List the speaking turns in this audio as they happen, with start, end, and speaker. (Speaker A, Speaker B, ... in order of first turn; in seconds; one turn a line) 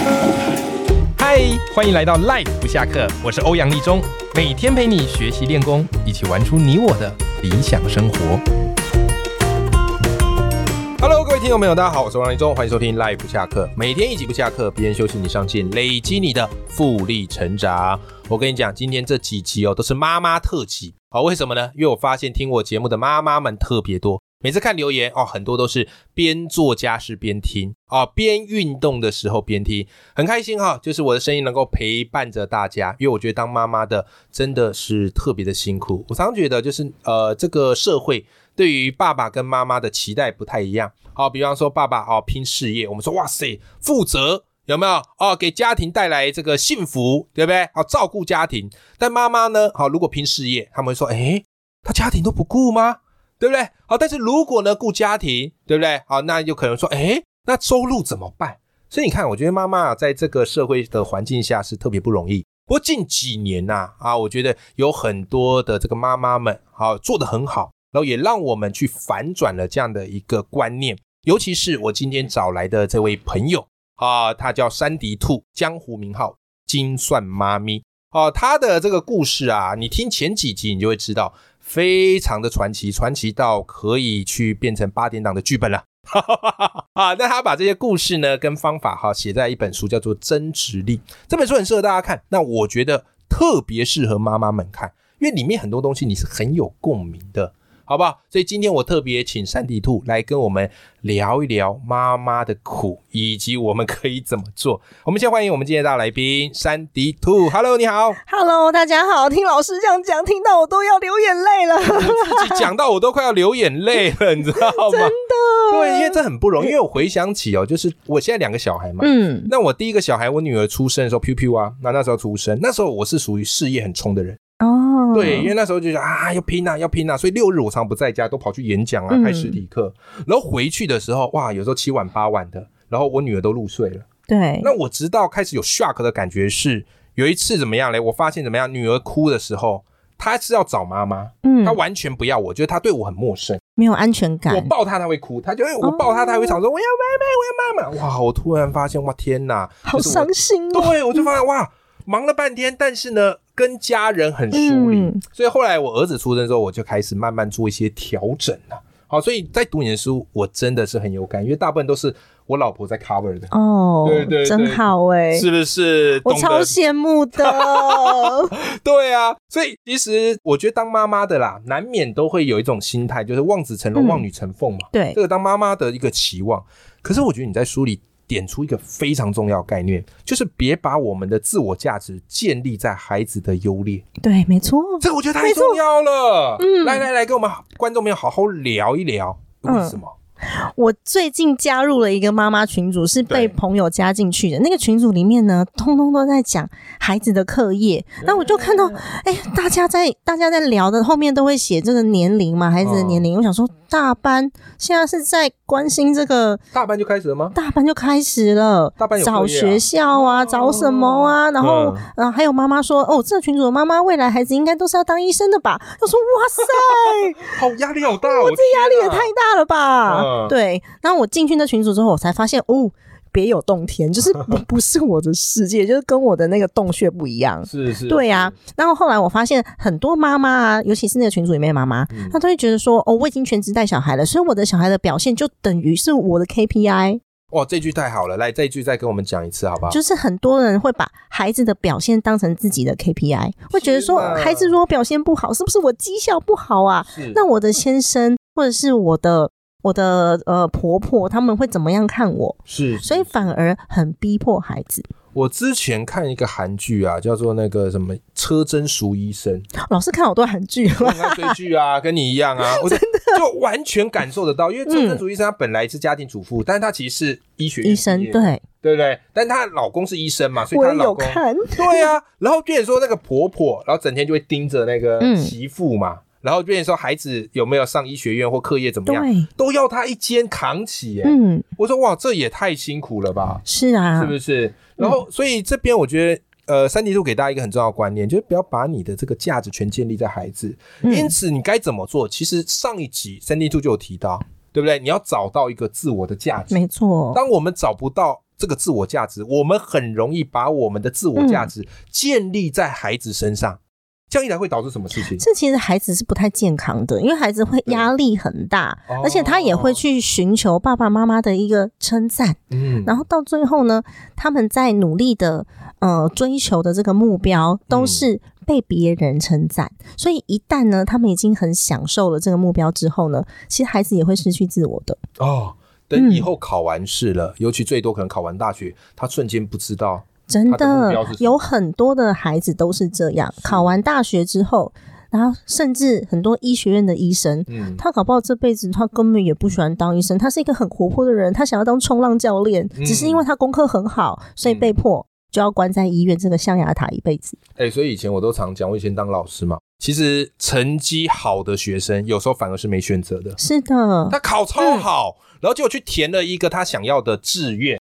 Speaker A: 1.2-8.4
Speaker A: 11.0-108.2
Speaker B: 108.2-112.7
Speaker A: 111.8-115.2
Speaker B: 114.5-116.7
Speaker A: 115.7-124.4
Speaker B: 119.0-119.5
Speaker B: 124.6-125.5
Speaker A: 125.1-134.1
Speaker B: 129.1-129.6
Speaker B: 134.3-134.7
Speaker A: 134.6-143.6
Speaker B: 141.4-141.8
Speaker B: 143.8-144.7
Speaker A: 144.5-163.5
Speaker B: 145.8-146.6
Speaker B: 149.8-151.3
Speaker B: 154.5-155.2
Speaker B: 163.5-165.4
Speaker A: 164.0-166.8
Speaker B: 166.2-168.5
Speaker A: 167.4-184.0
Speaker B: 173.9-174.2
Speaker B: 174.9-175.2
Speaker B: 184.2-185.8
Speaker A: 185.0-190.1
Speaker B: 186.6-187.1
Speaker B: 189.7-206.6
Speaker A: 193.3-193.5
Speaker A: 198.2-199.0
Speaker A: 202.8-203.2
Speaker A: 206.7-207.6
Speaker B: 207.5-217.6
Speaker A: 209.0-212.1
Speaker A: 217.5-219.3
Speaker B: 218.2-237.2
Speaker A: 220.1-220.5
Speaker A: 227.7-228.5
Speaker A: 232.1-232.3
Speaker A: 237.5-240.0
Speaker B: 239.9-255.1
Speaker A: 243.7-244.7
Speaker A: 247.1-247.4
Speaker A: 252.7-253.5
Speaker A: 255.3-259.7
Speaker B: 259.8-261.5
Speaker A: 260.9-283.6
Speaker B: 262.6-263.4
Speaker B: 264.9-265.2
Speaker B: 267.8-268.6
Speaker B: 270.7-272.1
Speaker B: 275.2-275.5
Speaker B: 279.1-279.5
Speaker B: 281.2-281.6
Speaker B: 283.6-284.3
Speaker A: 284.1-296.8
Speaker B: 291.0-291.4
Speaker B: 296.7-297.4
Speaker A: 297.3-303.8
Speaker B: 301.4-301.7
Speaker A: 304.3-305.4
Speaker B: 305.4-325.2
Speaker A: 309.1-310.0
Speaker A: 312.7-313.2
Speaker A: 317.9-318.2
Speaker A: 325.4-331.6
Speaker B: 326.1-326.5
Speaker B: 330.5-347.6
Speaker A: 333.6-334.0
Speaker A: 337.7-338.0
Speaker A: 342.9-343.4
Speaker A: 344.6-344.9
Speaker A: 347.8-353.6
Speaker B: 353.6-355.0
Speaker A: 354.3-358.0